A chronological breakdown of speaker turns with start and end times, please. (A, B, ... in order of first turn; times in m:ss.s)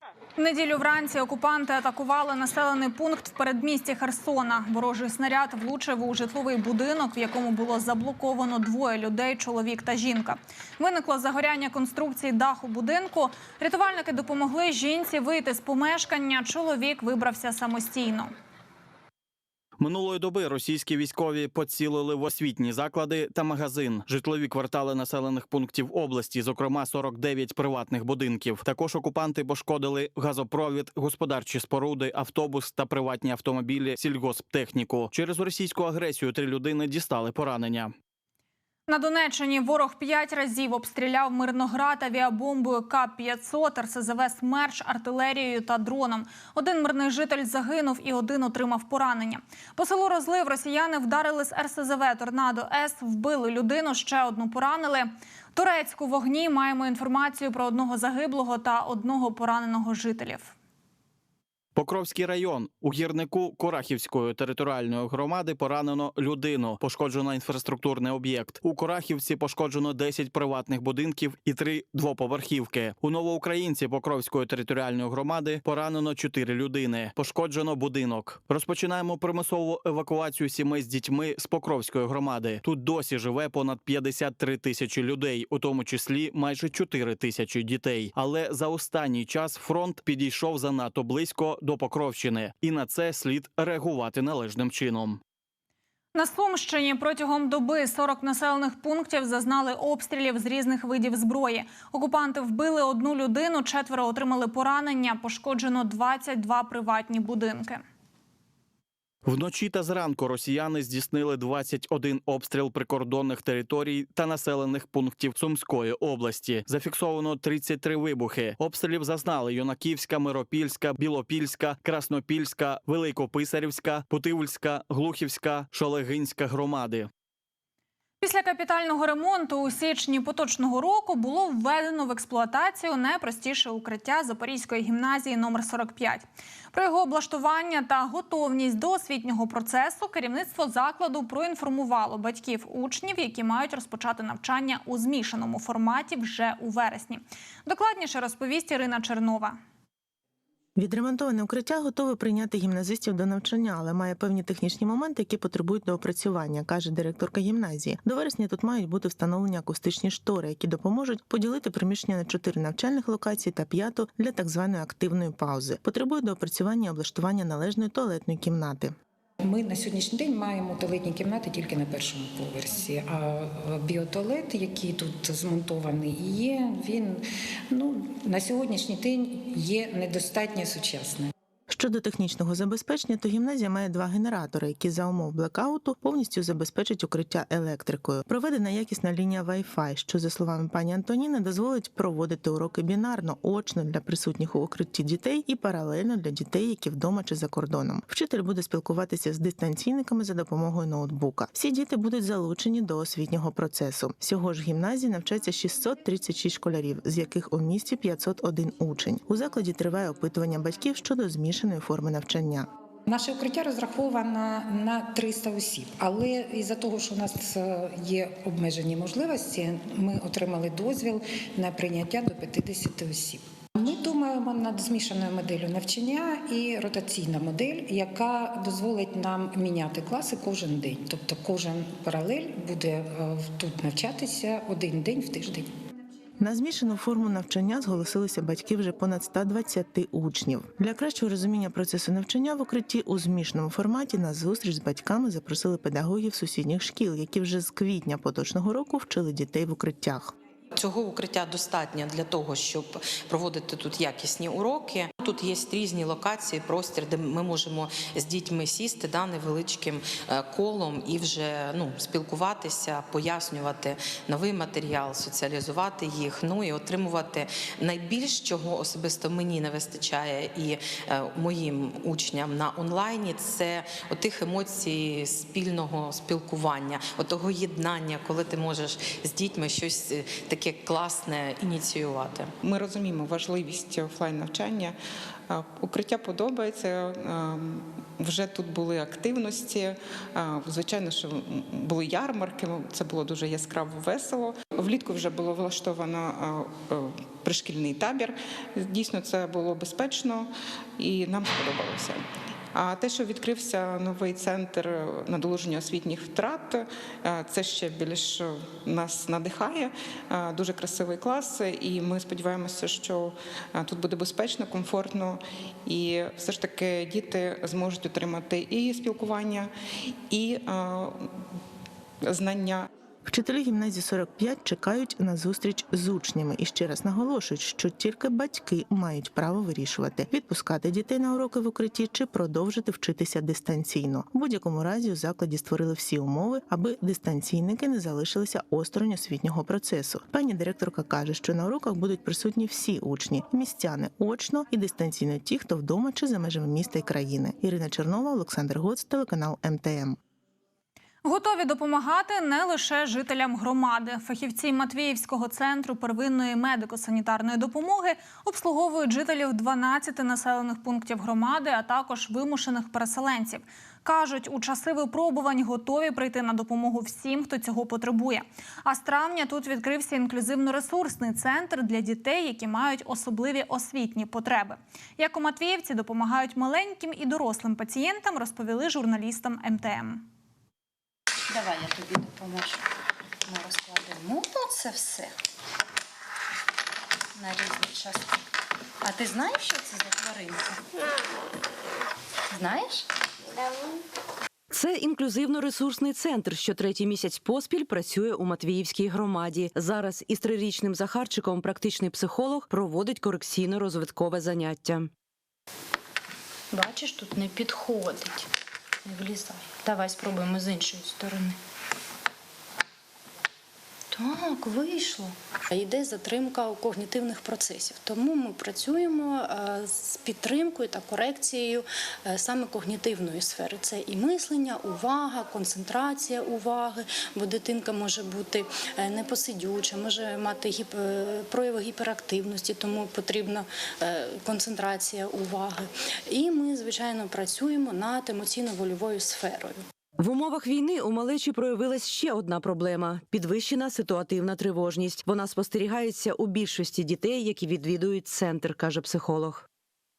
0:00.4-0:18.3 A
0:19.8-0:37.9 B
0:38.9-1:00.5 A
1:01.8-1:35.2 B
1:36.1-1:47.8 A
1:49.2-2:07.1 B
2:08.2-2:29.6 A
2:30.8-2:48.9 C
2:49.4-3:01.3 D
3:01.7-3:32.7 C
3:33.1-3:55.7 D
3:56.4-4:10.3 C
4:10.7-4:42.5 E
4:42.6-4:45.0 F
4:45.5-5:21.4 F
5:22.2-5:22.9 F
5:23.2-5:50.2 C
5:51.2-6:20.3 A
6:21.5-6:22.8 G
6:23.5-6:25.3 G
6:27.4-6:28.3 G
6:29.0-6:30.8 G
6:32.5-6:33.0 G
6:33.6-6:33.8 G
6:34.7-6:45.1 H
6:46.7-6:48.5 G
6:49.0-6:51.6 G
6:54.1-7:19.8 G
7:20.2-7:29.6 H